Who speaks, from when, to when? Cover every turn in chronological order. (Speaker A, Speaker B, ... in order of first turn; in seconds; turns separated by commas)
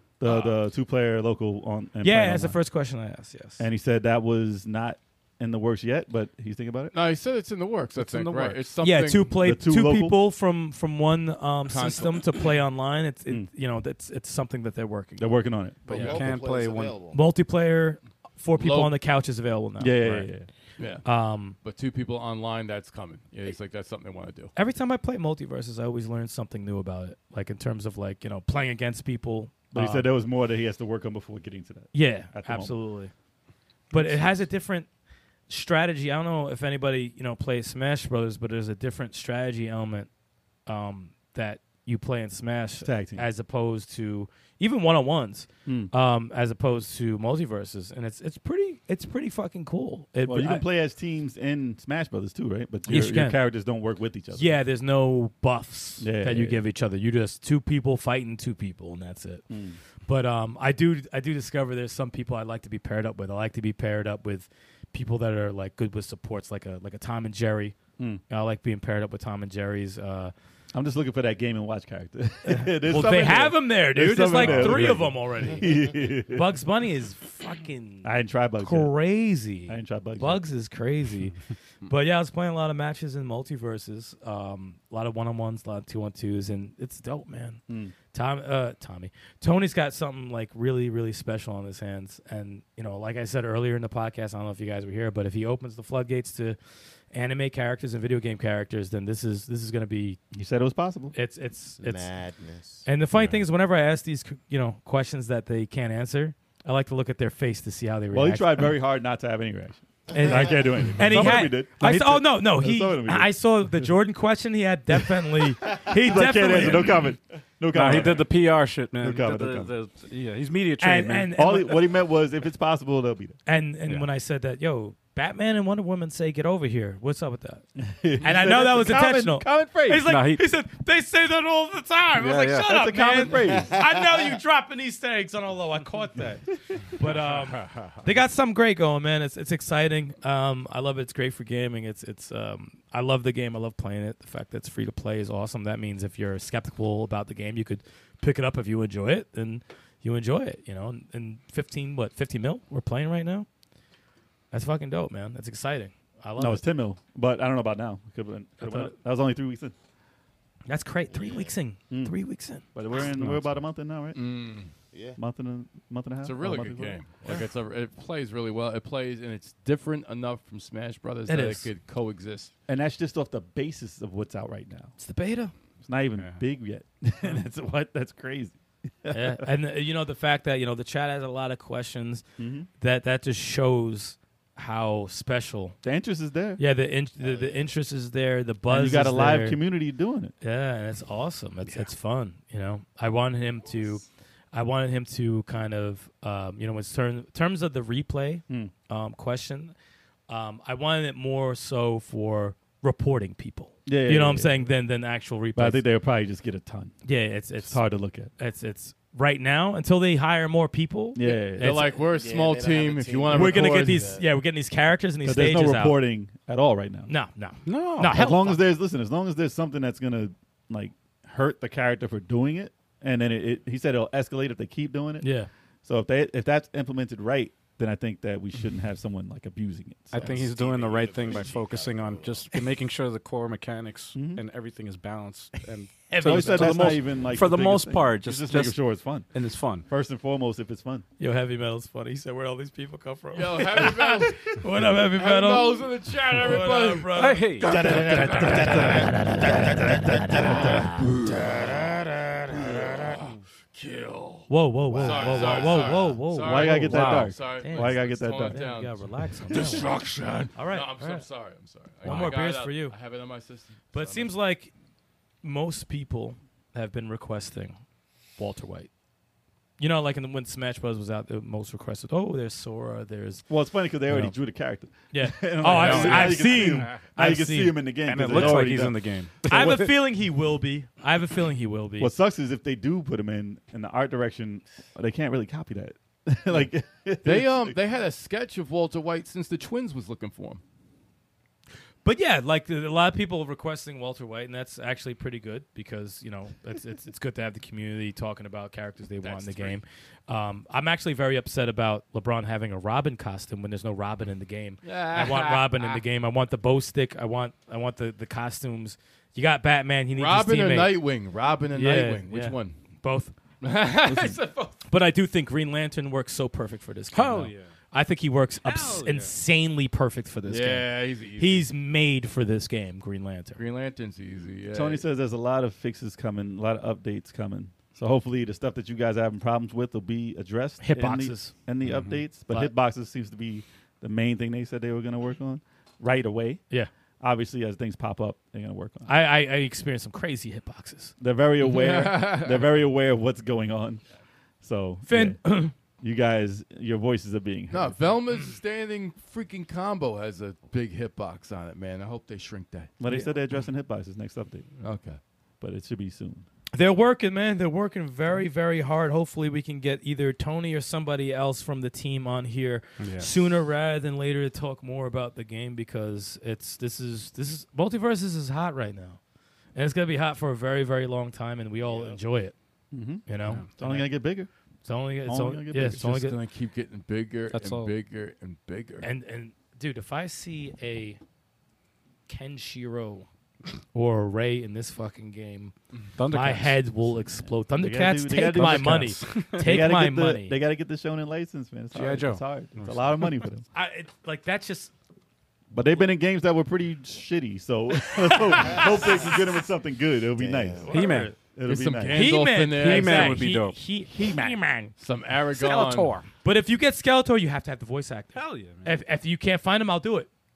Speaker A: 0.2-2.6, Speaker B: 0.2-0.6, Speaker C: 2.0-3.6, Speaker A: 3.6-6.9, Speaker B: 6.9-9.4, Speaker D: 8.0-8.7, Speaker C: 8.8-15.4, Speaker A: 9.4-10.2, Speaker B: 11.7-12.5, Speaker A: 15.2-16.1, Speaker E: 15.9-17.2, Speaker D: 15.9-17.0, Speaker C: 17.1-20.3, Speaker B: 18.5-18.9, Speaker A: 19.8-20.5, Speaker B: 20.8-21.0, Speaker C: 21.0-21.6, Speaker B: 21.6-24.5, Speaker C: 24.6-30.1, Speaker A: 29.7-32.7, Speaker C: 31.9-33.1, Speaker C: 33.9-34.9, Speaker A: 33.9-34.4, Speaker C: 35.5-40.1, Speaker C: 40.7-50.6, Speaker A: 42.8-43.3, Speaker A: 45.6-45.9, Speaker A: 50.2-54.5, Speaker C: 52.9-53.4, Speaker C: 54.3-59.5, Speaker A: 56.0-56.6, Speaker A: 59.5-59.8, Speaker C: 60.0-70.3, Speaker A: 70.7-76.5, Speaker C: 72.5-96.6, Speaker D: 74.4-74.7, Speaker A: 78.0-78.9, Speaker A: 79.7-80.4, Speaker A: 87.7-87.9, Speaker C: 97.1-100.2, Speaker A: 100.3-101.1, Speaker C: 101.1-102.1, Speaker E: 101.8-102.9, Speaker C: 102.8-108.7, Speaker A: 108.1-113.3, Speaker C: 110.1-117.1, Speaker A: 115.9-118.3, Speaker D: 117.7-121.3, Speaker A: 119.0-119.7, Speaker C: 120.8-121.9, Speaker A: 121.3-123.4, Speaker C: 123.5-127.6, Speaker A: 127.8-130.1, Speaker C: 128.2-153.5, Speaker D: 130.0-130.5, Speaker D: 132.1-132.7, Speaker A: 132.6-133.8, Speaker E: 133.5-134.4, Speaker C: 154.5-156.6, Speaker A: 156.4-159.7, Speaker C: 158.6-158.9, Speaker C: 160.7-162.6, Speaker E: 161.1-161.5, Speaker A: 161.9-162.2, Speaker A: 162.7-164.2, Speaker D: 163.1-163.5, Speaker B: 164.1-164.7, Speaker E: 164.9-165.2, Speaker A: 165.2-167.4, Speaker B: 166.2-172.5, Speaker C: 171.3-171.7, Speaker A: 172.7-174.9, Speaker C: 175.0-175.5, Speaker A: 175.8-179.5, Speaker D: 176.1-176.4, Speaker C: 179.1-182.3, Speaker A: 182.4-182.7, Speaker C: 182.8-185.8, Speaker A: 185.8-186.6, Speaker C: 186.6-189.6, Speaker E: 187.2-187.5, Speaker A: 188.7-190.3, Speaker C: 190.4-199.7, Speaker C: 200.3-205.8, Speaker A: 203.8-204.6, Speaker A: 205.6-206.9, Speaker C: 207.0-207.8, Speaker A: 207.6-208.3, Speaker C: 208.3-212.0, Speaker A: 211.1-211.8, Speaker B: 211.6-214.2, Speaker E: 212.1-214.3, Speaker C: 213.3-216.0, Speaker A: 215.2-217.1, Speaker C: 217.1-218.7, Speaker D: 217.6-218.2, Speaker A: 218.1-225.3, Speaker C: 225.2-225.5, Speaker A: 225.8-230.4, Speaker D: 230.1-239.9, Speaker E: 230.1-232.7, Speaker A: 234.1-234.4, Speaker C: 236.1-237.1, Speaker A: 236.2-239.3, Speaker A: 239.8-241.0, Speaker C: 241.2-250.7, Speaker B: 243.3-244.6, Speaker B: 245.1-247.4, Speaker D: 247.1-247.8, Speaker A: 247.7-250.9, Speaker E: 247.8-249.6, Speaker B: 250.9-264.3, Speaker C: 254.5-259.9, Speaker E: 254.9-255.9, Speaker A: 256.4-258.6, Speaker D: 256.9-257.4, Speaker C: 260.5-261.2, Speaker C: 262.0-262.9, Speaker D: 262.1-262.4, Speaker C: 263.9-264.7, Speaker C: 265.4-267.8, Speaker C: 268.4-268.9, Speaker C: 269.8-273.5, Speaker A: 273.5-279.0, Speaker C: 274.0-274.3, Speaker C: 275.1-278.6, Speaker D: 275.6-276.7, Speaker D: 278.0-279.9, Speaker C: 279.5-282.1, Speaker A: 282.0-287.8, Speaker B: 287.2-290.6, Speaker C: 292.0-311.0, Speaker B: 299.2-299.8, Speaker B: 304.8-306.0, Speaker B: 310.1-312.8, Speaker C: 311.7-313.3, Speaker B: 313.6-314.9, Speaker C: 314.9-323.6, Speaker D: 317.1-317.7, Speaker D: 318.6-319.4, Speaker B: 320.5-321.7, Speaker B: 323.6-325.0, Speaker A: 324.7-336.6, Speaker C: 330.8-331.7, Speaker D: 331.8-332.3, Speaker C: 332.4-332.7, Speaker A: 337.2-339.1, Speaker C: 339.0-341.1, Speaker A: 341.2-344.0, Speaker B: 341.6-342.7, Speaker A: 344.6-345.4, Speaker C: 345.1-345.7, Speaker A: 346.0-348.1, Speaker B: 347.7-353.3, Speaker A: 353.0-354.7, Speaker B: 354.8-355.2, Speaker A: 355.6-356.5, Speaker C: 356.7-369.2, Speaker D: 363.0-363.4, Speaker C: 369.7-372.5, Speaker E: 371.8-372.2, Speaker A: 372.9-374.5, Speaker C: 373.2-374.0, Speaker D: 373.4-373.7, Speaker C: 374.8-376.4, Speaker A: 375.2-376.1, Speaker B: 375.9-379.1, Speaker D: 377.5-377.9, Speaker C: 379.0-381.2, Speaker C: 382.3-383.3, Speaker C: 383.9-385.7, Speaker D: 386.2-386.9, Speaker C: 386.3-390.6, Speaker A: 387.7-393.6, Speaker D: 388.5-389.8, Speaker D: 391.9-393.4, Speaker C: 393.7-394.9, Speaker A: 395.7-402.3, Speaker C: 398.1-399.3, Speaker E: 398.6-399.3, Speaker E: 400.4-401.1, Speaker C: 400.9-401.4, Speaker D: 400.9-401.3, Speaker B: 401.6-403.5, Speaker C: 402.1-404.9, Speaker D: 402.7-403.8, Speaker A: 404.1-404.6, Speaker B: 405.0-406.2, Speaker D: 405.5-406.3, Speaker C: 406.4-410.3, Speaker D: 408.3-409.0